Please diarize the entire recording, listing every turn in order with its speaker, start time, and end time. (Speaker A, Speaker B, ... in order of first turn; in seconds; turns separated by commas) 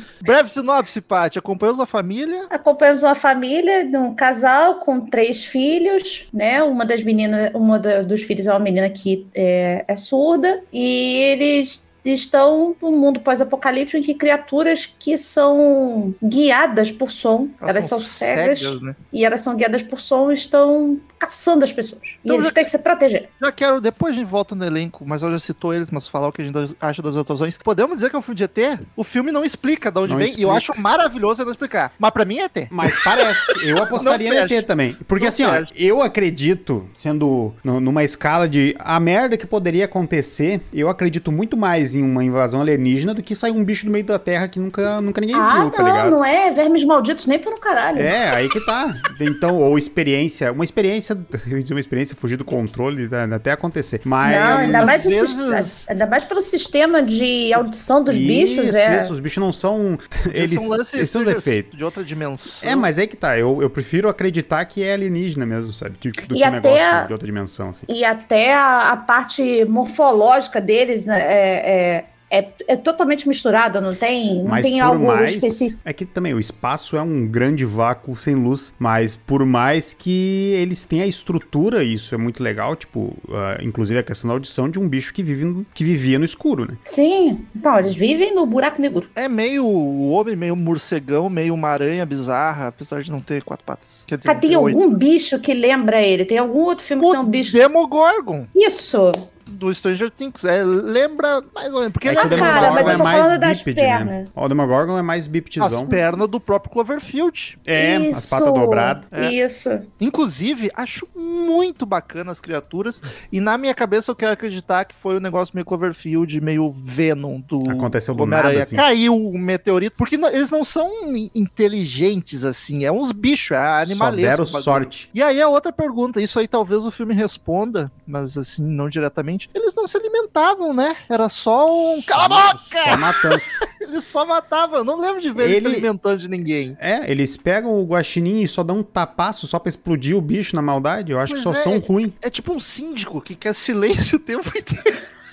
Speaker A: 0.2-2.5, Speaker B: 2.5-23.3, Speaker A: 17.6-19.0, Speaker A: 22.3-22.7, Speaker A: 23.4-35.7, Speaker C: 30.1-30.8, Speaker C: 32.7-46.2, Speaker B: 45.3-48.1, Speaker C: 48.0-55.0, Speaker B: 54.2-59.1, Speaker A: 54.4-55.9, Speaker C: 58.1-61.7, Speaker A: 60.3-62.9, Speaker C: 62.6-67.9, Speaker B: 66.3-67.1, Speaker B: 67.9-75.8, Speaker C: 74.5-86.8, Speaker B: 86.8-89.1, Speaker A: 89.2-94.8, Speaker B: 94.2-97.6, Speaker A: 97.0-98.5, Speaker B: 98.5-99.3, Speaker A: 99.5-103.2, Speaker C: 102.0-106.0, Speaker B: 102.1-104.3, Speaker A: 105.6-107.6, Speaker C: 107.7-109.1, Speaker B: 107.8-109.9, Speaker A: 110.0-136.8, Speaker C: 117.7-118.8, Speaker C: 123.8-125.1, Speaker C: 131.7-133.6, Speaker C: 135.4-135.9, Speaker C: 136.8-142.2, Speaker A: 141.2-145.0